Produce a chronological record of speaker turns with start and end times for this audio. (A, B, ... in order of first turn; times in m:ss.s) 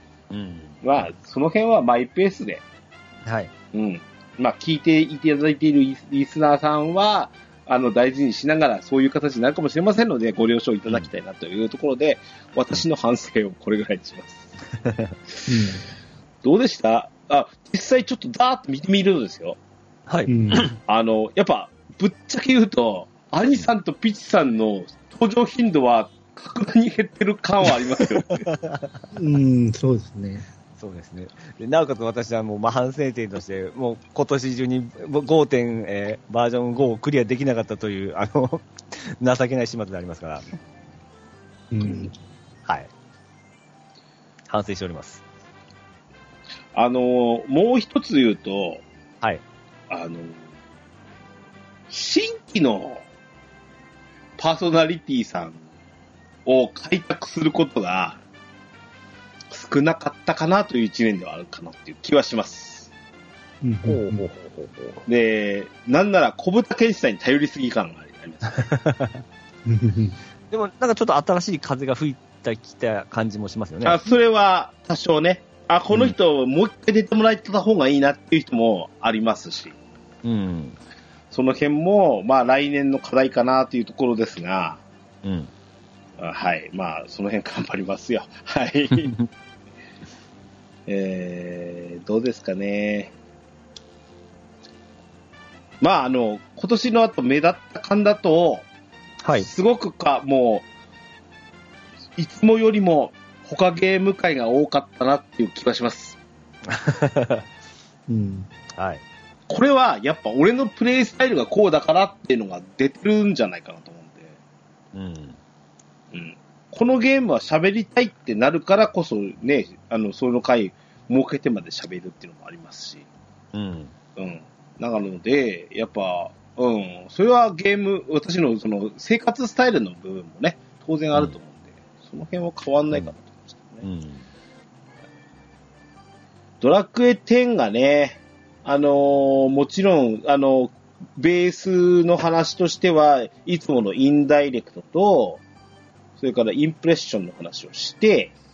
0:00.3-0:00.8 A
0:00.8-0:02.6 B
0:03.2-0:03.5 A
0:03.7-0:14.5 B
0:15.5-0:15.8 C
0:16.4-0:19.6 B
0:20.1-0:20.7 A
0:20.3-0:20.7 C
0:20.8-0:28.5 B
0:28.5-0:28.9 A
0:29.1-0:30.4 C
0:30.8-0:40.5 A
0:41.7-0:42.1 C
0:44.5-0:45.2 A
0:46.7-0:48.8 B
0:49.9-0:50.4 B
0:51.9-0:53.0 B
0:54.4-0:55.6 B
0:56.5-0:58.2 B
0:59.5-1:02.9 B
1:03.6-1:04.3 C
1:03.8-1:05.0 A
1:05.1-1:08.7 B
1:08.6-1:09.2 A
1:09.6-1:10.2 C
1:10.5-1:14.0 A
1:13.8-1:19.8 B
1:20.2-1:20.8 A
1:21.3-1:24.8 B
1:25.2-1:25.5 A
1:26.2-1:29.1 B
1:30.9-1:33.1 B
1:35.8-1:38.7 B
1:39.2-1:39.5 A
1:39.4-1:40.7 B
1:42.2-1:46.2 B
1:46.7-1:47.4 A
1:48.1-1:48.5 C
1:48.8-1:49.0 A
1:49.5-1:54.3 B
1:54.9-1:55.4 A
1:56.1-2:03.0 B
2:03.5-2:03.9 A
2:04.2-2:13.9 B
2:13.8-2:14.2 A
2:16.6-2:25.4 B
2:26.2-2:28.4 B